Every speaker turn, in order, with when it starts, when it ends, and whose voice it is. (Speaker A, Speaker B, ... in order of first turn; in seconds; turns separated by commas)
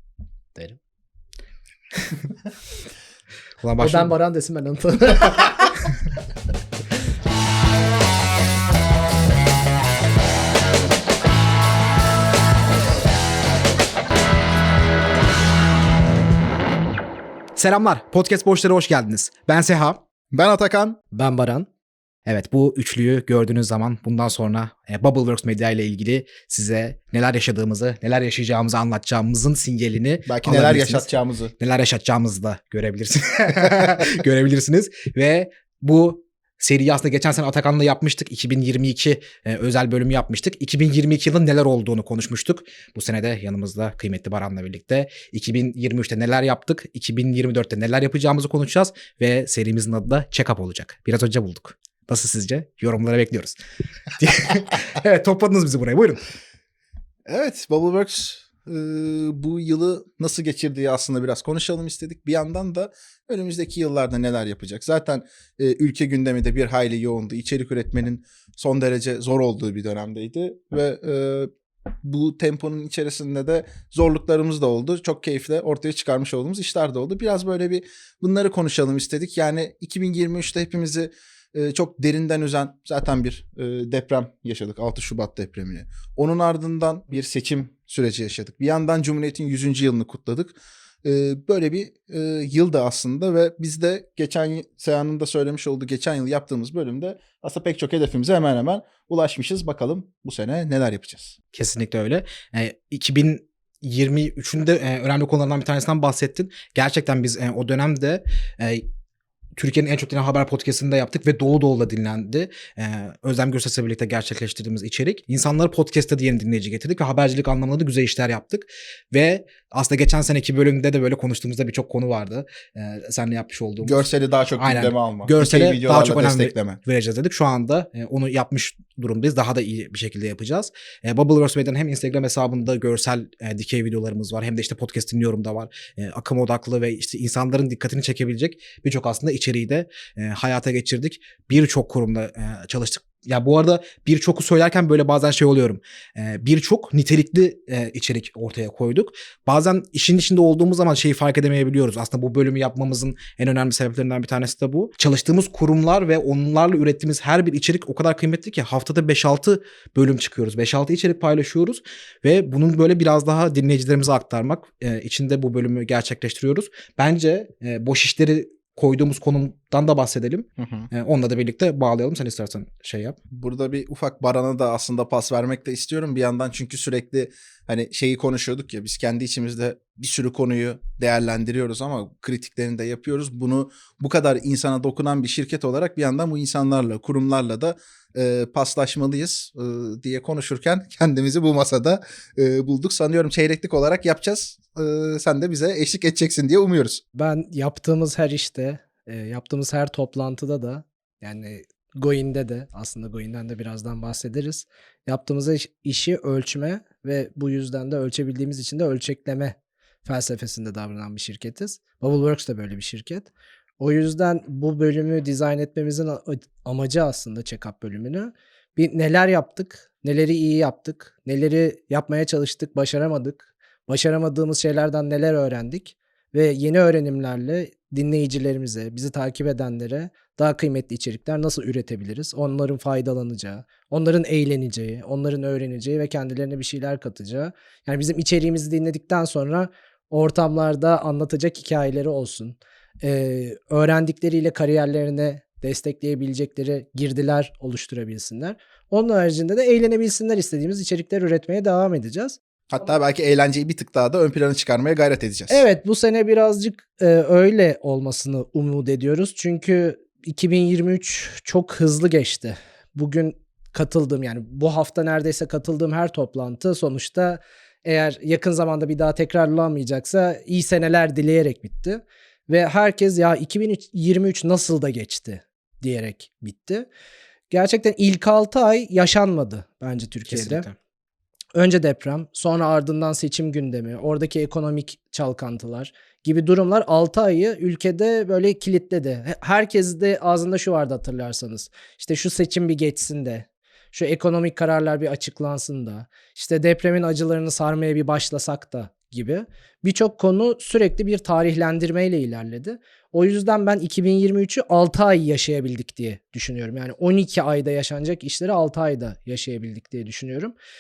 Speaker A: 3.6-4.1, Speaker B: 3.8-5.9, Speaker A: 17.6-20.0, Speaker C: 20.3-21.0, Speaker A: 21.1-21.7, Speaker A: 22.2-53.5, Speaker C: 30.3-31.5, Speaker A: 54.2-56.2, Speaker C: 57.3-71.5, Speaker C: 72.0-101.3, Speaker A: 101.5-108.9, Speaker A: 109.5-124.0, Speaker C: 123.8-126.8, Speaker A: 124.6-173.2, Speaker C: 170.6-170.9, Speaker C: 173.3-197.0, Speaker B: 197.2-252.4, Speaker C: 252.7-255.7, Speaker B: 255.5-276.9, Speaker B: 277.5-280.6, Speaker A: 280.3-280.8, Speaker B: 281.6-310.5